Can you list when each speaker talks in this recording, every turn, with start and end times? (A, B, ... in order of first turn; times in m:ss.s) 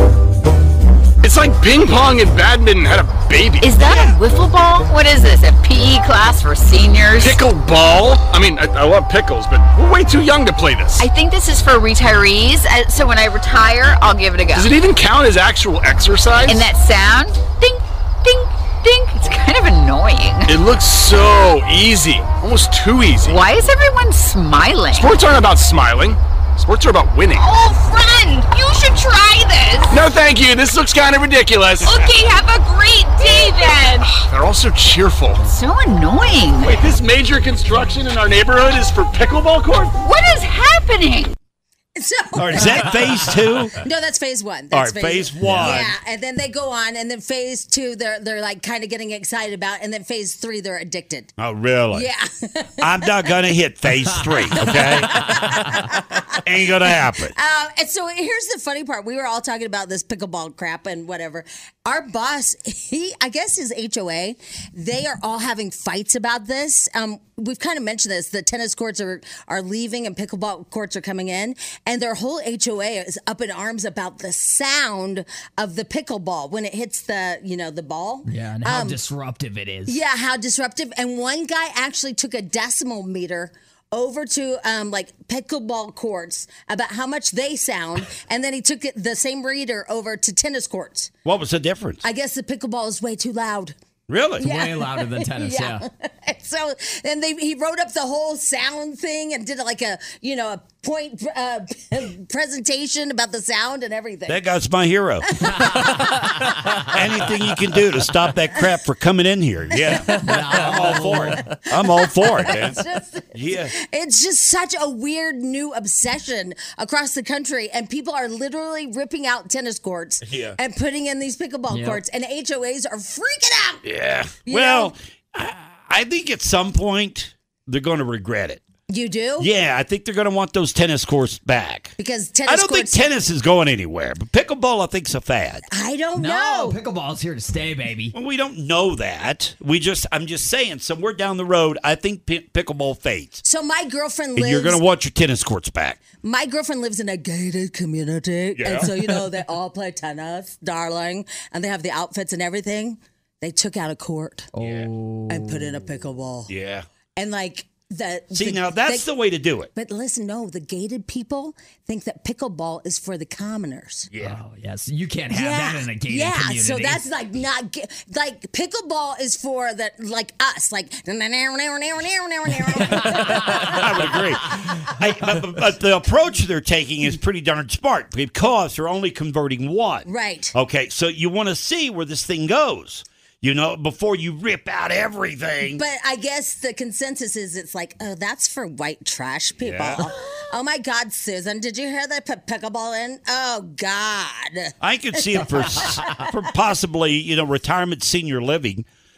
0:01.2-0:03.8 A
0:03.6-0:07.4 B
0:03.8-0:04.2 C
0:07.2-0:11.0 A
0:11.0-0:14.7 B
0:14.6-0:16.7 A
0:16.5-0:20.5 B
0:20.5-0:23.6 A
0:23.2-0:25.2 B
0:24.9-0:27.5 A
0:28.5-0:30.0 B
0:29.9-0:32.1 A
0:31.9-0:34.3 B
0:34.3-0:35.4 A
0:35.4-0:36.8 B
0:36.6-0:39.9 A
0:40.0-0:41.4 B
0:42.0-0:51.3 D
0:42.4-0:43.8 C
0:44.7-0:45.9 C
0:45.4-0:45.8 E
0:51.4-0:52.1 C
0:51.9-0:53.1 D
0:52.8-0:55.4 C
0:54.6-0:56.4 D
0:56.4-0:57.3 C
0:57.4-1:19.0 D
1:18.3-1:20.0 E
1:19.9-1:31.1 D
1:31.2-1:32.0 C
1:32.0-1:33.8 D
1:34.1-1:34.4 C
1:34.4-1:35.8 E
1:34.4-1:44.4 D
1:44.3-1:45.9 C
1:45.4-1:46.0 D
1:45.5-1:46.3 E
1:46.9-1:52.8 C
1:49.7-2:03.8 D
1:50.2-1:51.4 E
1:53.3-1:53.7 C
2:00.2-2:00.6 C
2:01.7-2:02.0 E
2:03.8-2:08.6 C
2:04.5-2:04.9 D
2:08.9-2:09.5 D
2:09.4-2:12.0 C
2:12.0-2:13.0 D
2:12.5-2:15.6 C
2:15.7-2:16.8 D
2:16.2-2:18.2 E
2:18.1-2:23.4 C
2:23.4-2:24.8 D
2:24.4-2:26.0 C
2:26.2-2:34.5 D
2:28.6-2:28.9 C
2:34.5-2:35.8 E
2:34.6-2:34.9 C
2:35.3-2:36.5 D
2:36.5-2:36.8 C
2:37.2-2:39.1 D
2:38.3-2:39.7 C
2:39.8-2:44.1 D
2:44.1-2:44.4 C
2:44.2-2:47.0 E
2:45.3-2:54.2 D
2:52.8-2:54.1 E
2:53.0-3:05.8 C
3:00.1-3:00.5 D
3:05.7-3:15.9 D
3:09.6-3:10.0 C
3:14.8-3:18.9 C
3:15.8-3:16.2 E